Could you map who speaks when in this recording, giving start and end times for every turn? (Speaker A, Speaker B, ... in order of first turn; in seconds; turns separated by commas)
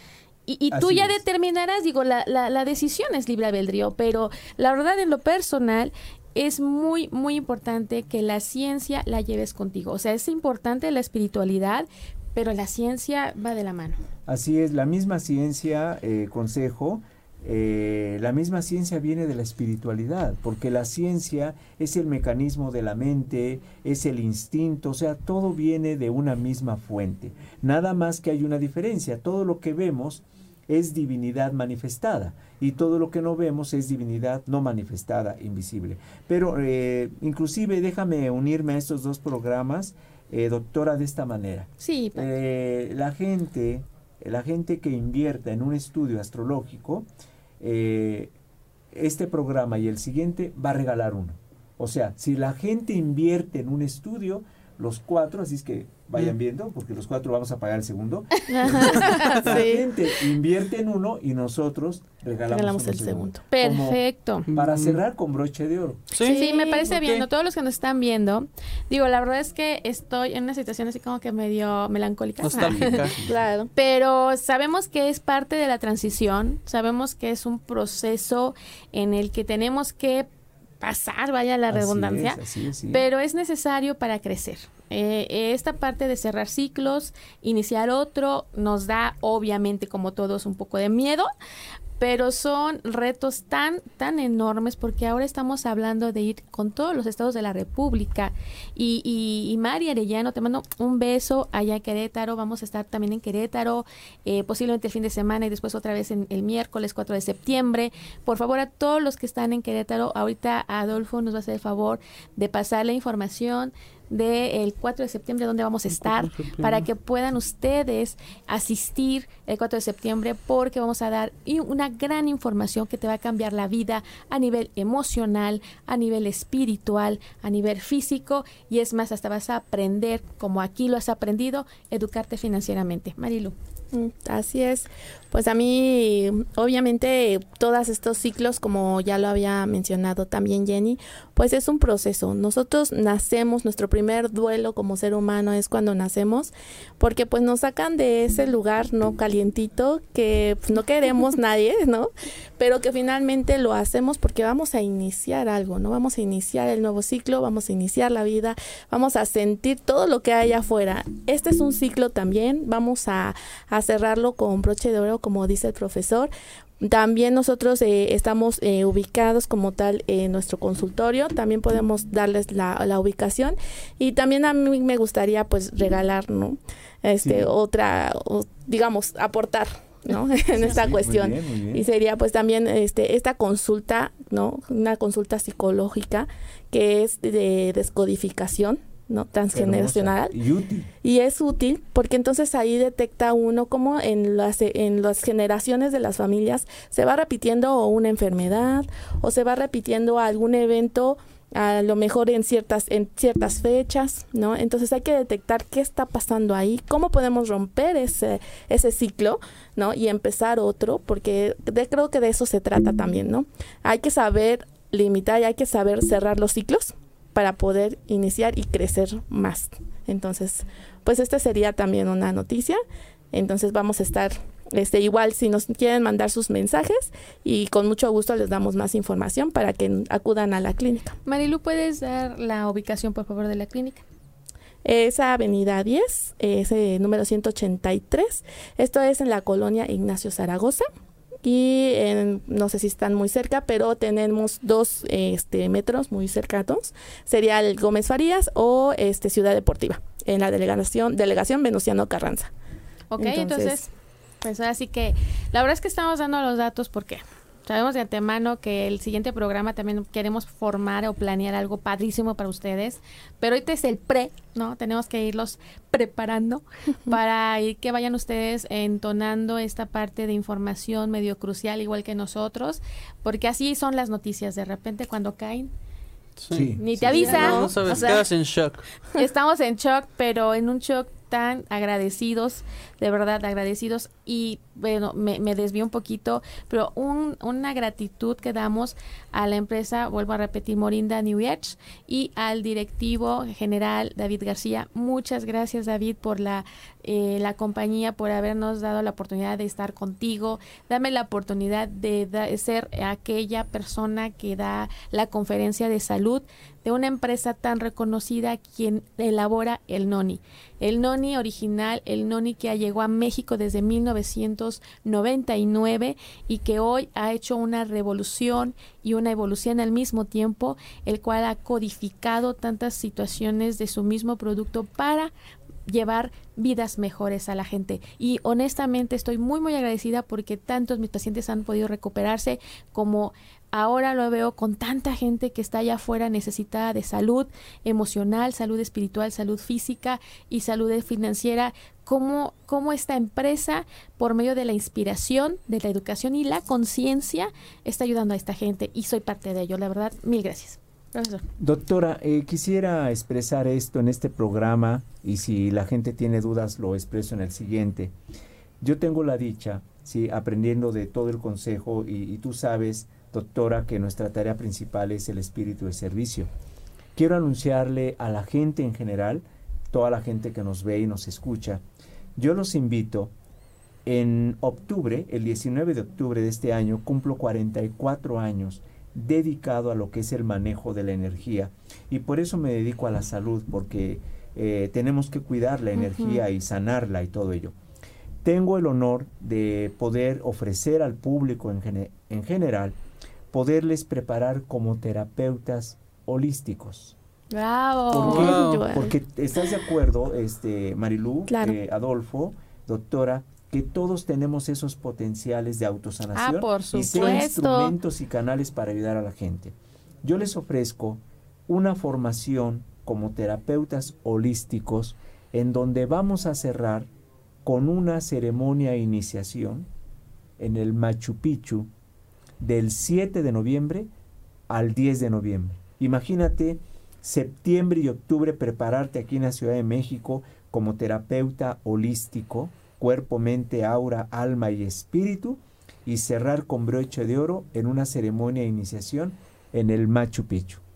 Speaker A: 0.5-14.0, Speaker B: 0.7-1.2, Speaker B: 14.3-47.1, Speaker A: 41.8-42.3, Speaker B: 47.6-48.3, Speaker B: 48.9-64.0, Speaker C: 58.5-59.8, Speaker D: 58.9-59.4, Speaker C: 62.5-63.4, Speaker A: 63.5-64.5, Speaker D: 64.5-65.0, Speaker B: 64.5-66.1, Speaker D: 66.1-67.3, Speaker C: 66.2-66.9, Speaker A: 66.2-73.1, Speaker D: 72.4-73.2, Speaker B: 72.6-73.4, Speaker C: 73.3-73.7, Speaker A: 73.8-80.3, Speaker A: 80.8-91.3, Speaker B: 81.7-83.0, Speaker A: 92.0-133.6, Speaker D: 116.0-116.8, Speaker C: 133.9-190.4, Speaker B: 177.2-177.5, Speaker B: 180.5-181.9, Speaker B: 189.5-190.9, Speaker C: 191.0-222.8, Speaker C: 223.3-231.2, Speaker A: 231.3-234.0, Speaker C: 234.8-240.9, Speaker C: 241.4-252.5, Speaker A: 253.1-253.9, Speaker C: 253.2-253.8, Speaker A: 254.4-275.7, Speaker D: 276.4-278.9, Speaker B: 276.5-277.9, Speaker A: 276.8-278.3, Speaker C: 277.1-278.0, Speaker A: 279.1-325.3, Speaker A: 325.9-351.4, Speaker B: 351.6-358.1, Speaker B: 358.8-366.5, Speaker B: 367.1-371.8, Speaker B: 372.4-373.3, Speaker B: 374.1-387.7, Speaker C: 386.0-386.4, Speaker B: 388.4-393.0, Speaker B: 393.5-397.2, Speaker A: 397.5-398.5, Speaker B: 398.1-417.1, Speaker C: 398.2-399.1, Speaker D: 398.2-398.9, Speaker C: 401.5-401.8, Speaker A: 406.3-407.9, Speaker C: 407.1-407.5, Speaker B: 417.6-419.9, Speaker B: 420.6-421.9, Speaker B: 422.6-424.1, Speaker B: 424.7-440.8